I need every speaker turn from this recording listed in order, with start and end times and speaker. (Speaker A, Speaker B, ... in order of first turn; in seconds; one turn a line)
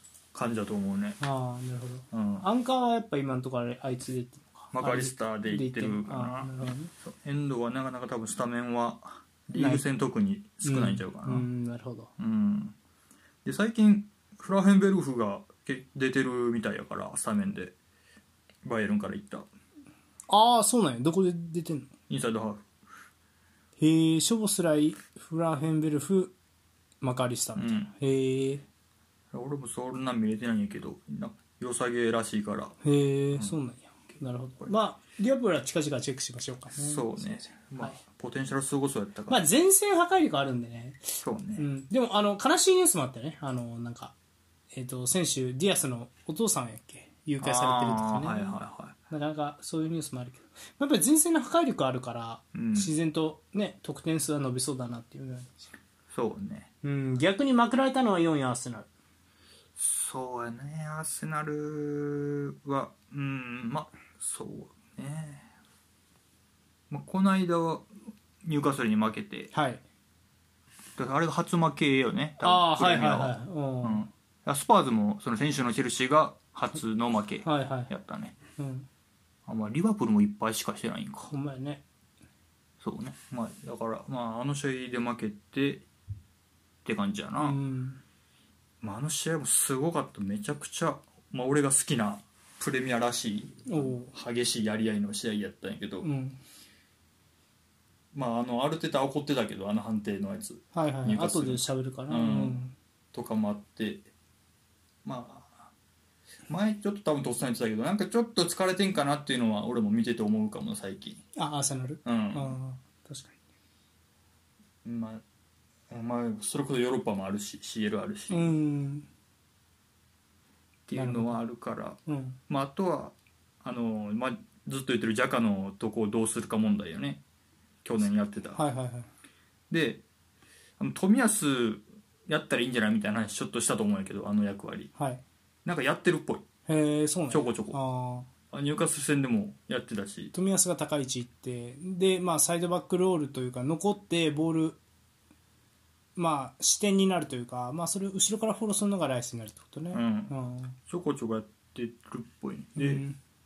Speaker A: 0.3-1.2
Speaker B: 1.2-6.9
Speaker A: 2.1-2.5
Speaker A: 4.7-11.5
Speaker B: 9.6-9.8
Speaker B: 10.6-12.1
Speaker A: 12.2-12.7
Speaker A: 13.4-17.7
Speaker A: 18.6-19.5
Speaker B: 20.3-21.9
Speaker A: 22.1-22.6
Speaker B: 23.8-26.3
Speaker B: 27.0-28.6
Speaker A: 27.6-27.9
Speaker A: 29.3-32.8
Speaker B: 32.8-38.0
Speaker A: 36.8-39.4
Speaker B: 39.3-44.1
Speaker A: 41.2-41.6
Speaker B: 44.7-48.6
Speaker A: 47.4-48.9
Speaker B: 49.1-55.7
Speaker A: 52.5-52.9
Speaker A: 56.1-56.7
Speaker B: 56.8-58.9
Speaker A: 59.8-65.5
Speaker A: 66.9-67.9
Speaker A: 68.4-69.5
Speaker B: 69.5-69.8
Speaker A: 71.0-78.4
Speaker B: 72.4-74.1
Speaker B: 77.4-77.9
Speaker B: 78.6-78.9
Speaker A: 79.5-81.3
Speaker B: 81.3-81.8
Speaker A: 82.8-85.9
Speaker A: 86.8-87.6
Speaker B: 87.4-88.0
Speaker A: 88.8-96.1
Speaker B: 93.7-94.1
Speaker B: 96.0-96.4
Speaker A: 98.1-102.6
Speaker B: 100.7-102.7
Speaker A: 103.1-104.1
Speaker A: 105.0-105.7
Speaker A: 106.5-111.2
Speaker B: 111.4-113.3
Speaker A: 112.0-112.6
Speaker A: 114.8-115.2
Speaker A: 115.9-118.5
Speaker B: 118.3-119.1
Speaker A: 120.9-127.2
Speaker B: 120.9-121.4
Speaker B: 122.1-122.4
Speaker A: 127.8-128.6
Speaker B: 128.6-129.1
Speaker A: 129.7-130.0
Speaker A: 130.8-134.9
Speaker B: 135.0-135.2
Speaker A: 135.6-136.4
Speaker B: 136.7-138.3
Speaker A: 137.3-137.8
Speaker A: 138.5-140.3
Speaker B: 140.3-144.8
Speaker B: 146.2-150.7
Speaker A: 149.9-150.3
Speaker A: 150.9-153.0
Speaker B: 152.8-153.2